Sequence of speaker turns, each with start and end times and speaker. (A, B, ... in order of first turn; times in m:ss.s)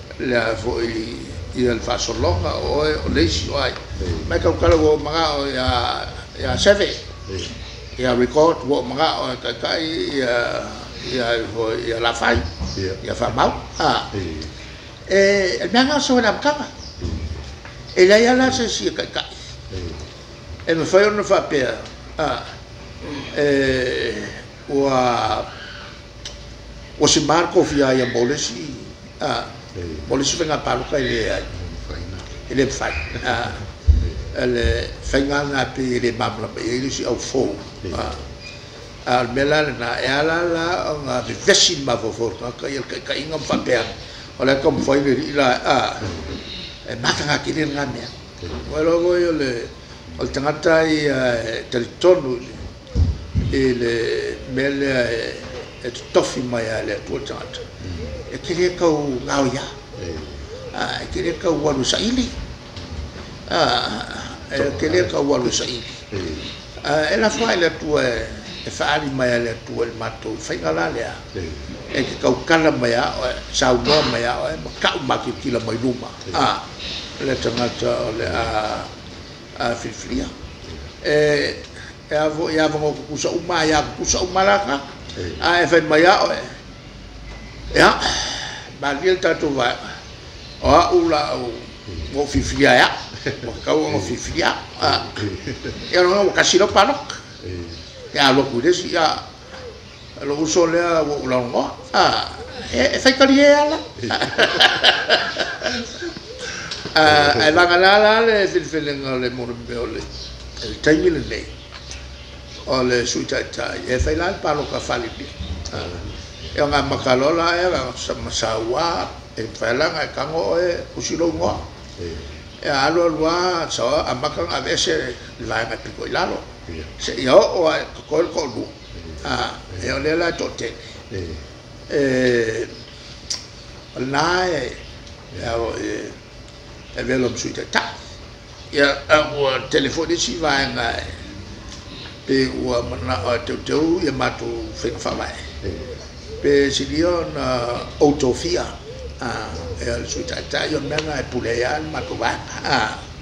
0:00.2-0:07.1 A
0:07.3-0:07.5 B
0:08.0-0:14.1 A
0:14.1-0:14.5 B
0:15.1-0:16.7 A
0:17.0-0:17.3 B
0:18.0-0:19.3 A
0:19.7-0:20.0 B
0:20.7-0:22.5 A
0:23.3-0:25.5 A
0:27.0-0:31.5 A
0:29.8-0:30.0 B
0:31.6-0:32.3 B
0:32.5-0:33.7 A
0:34.3-0:38.2 A
0:39.0-0:46.2 A
0:46.9-0:52.6 A
0:53.5-0:57.7 A
0:57.9-0:58.2 B
0:58.2-0:59.7 A
1:00.0-1:00.4 B
1:00.7-1:02.4 A
1:03.5-1:06.0 A
1:04.7-1:05.0 B
1:06.1-1:06.4 B
1:06.8-1:11.2 A
1:11.9-1:16.7 A
1:17.2-1:18.9 A
1:19.6-1:20.3 A
1:21.0-1:26.6 A
1:27.7-1:30.0 A
1:30.6-1:37.2 A
1:35.0-1:35.8 B
1:37.4-1:37.8 B
1:38.1-1:39.3 A
1:40.2-1:46.0 A
1:44.1-1:44.5 B
1:46.8-1:51.5 A
1:47.2-1:47.5 B
1:52.6-1:56.0 A
1:56.5-2:01.7 A
2:02.0-2:02.3 B
2:02.6-2:11.0 A
2:11.1-2:11.4 B
2:11.9-2:12.7 A
2:13.9-2:14.8 A
2:15.3-2:16.2 A
2:17.0-2:18.0 A
2:18.7-2:21.2 A
2:22.3-2:25.5 A
2:26.4-2:33.0 A